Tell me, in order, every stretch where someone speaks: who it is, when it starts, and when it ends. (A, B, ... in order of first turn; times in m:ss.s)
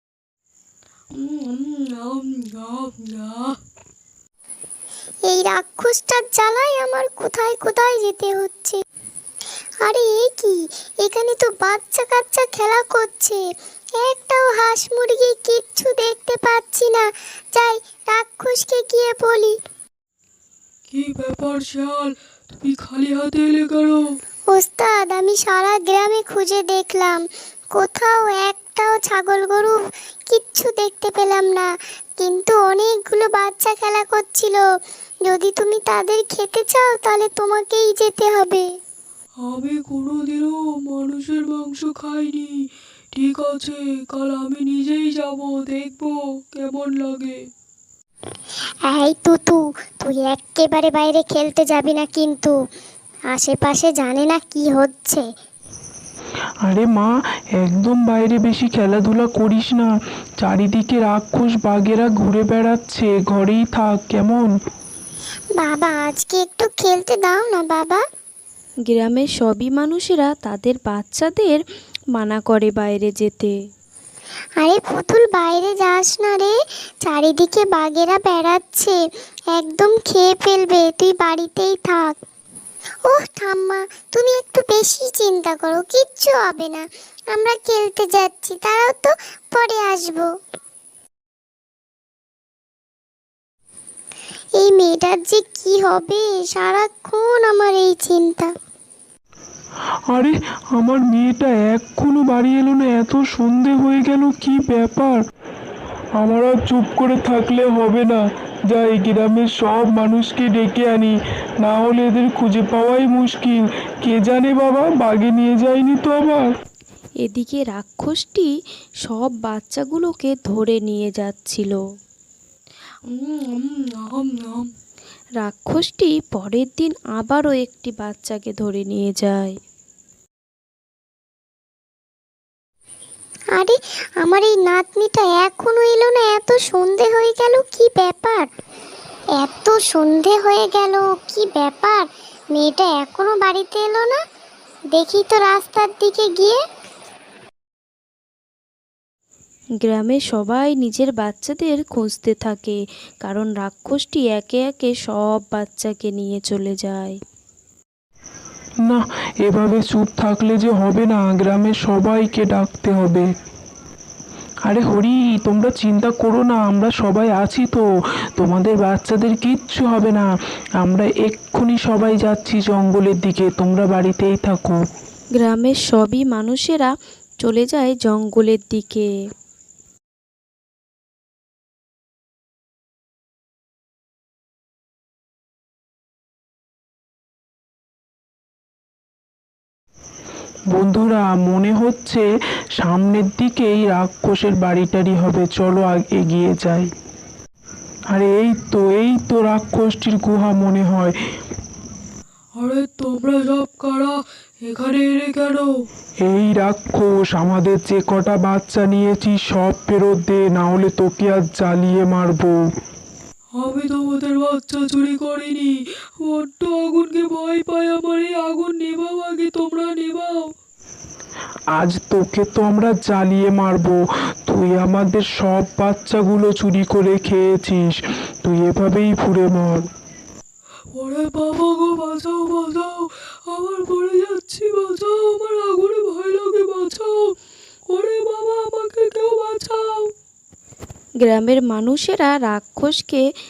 0:01.1-0:03.6 A
0:05.3-0:08.8 B
0:09.8-0:13.4 B
0:14.0-0:19.6 B
0:20.9-0:24.0 A
0:24.5-0:31.7 B
0:32.2-0:34.6 B
0:35.2-0:38.7 B
0:39.4-0:42.5 A
0:43.1-0:47.4 A
0:48.9-0:52.5 B
0:53.3-0:55.2 B
0:56.6-0:59.9 C
1:00.4-1:04.5 C
1:05.6-1:08.0 B
1:08.9-1:11.6 D
1:12.1-1:13.6 D
1:14.6-1:19.0 B
1:19.5-1:22.2 B
1:23.1-1:30.3 B
1:34.6-1:38.5 B
1:40.1-1:45.2 C
1:46.2-1:56.5 C
1:57.2-1:58.5 D
1:59.0-2:01.8 D
2:03.1-2:04.7 A
2:05.4-2:09.5 D
2:13.6-2:18.5 B
2:19.4-2:24.2 B
2:24.9-2:26.6 B
2:29.8-2:37.2 D
2:38.8-2:43.3 C
2:44.6-2:47.8 C
2:48.4-2:50.3 C
2:50.8-2:54.8 C
2:55.4-2:59.1 D
3:10.7-3:12.2 C
3:12.8-3:16.9 C
3:18.1-3:21.2 C
3:22.6-3:25.7 A
3:26.2-3:32.6 C
3:33.6-3:40.5 A
3:41.8-3:49.9 C
3:50.9-3:57.2 A
3:57.9-4:00.1 A
4:01.2-4:03.3 D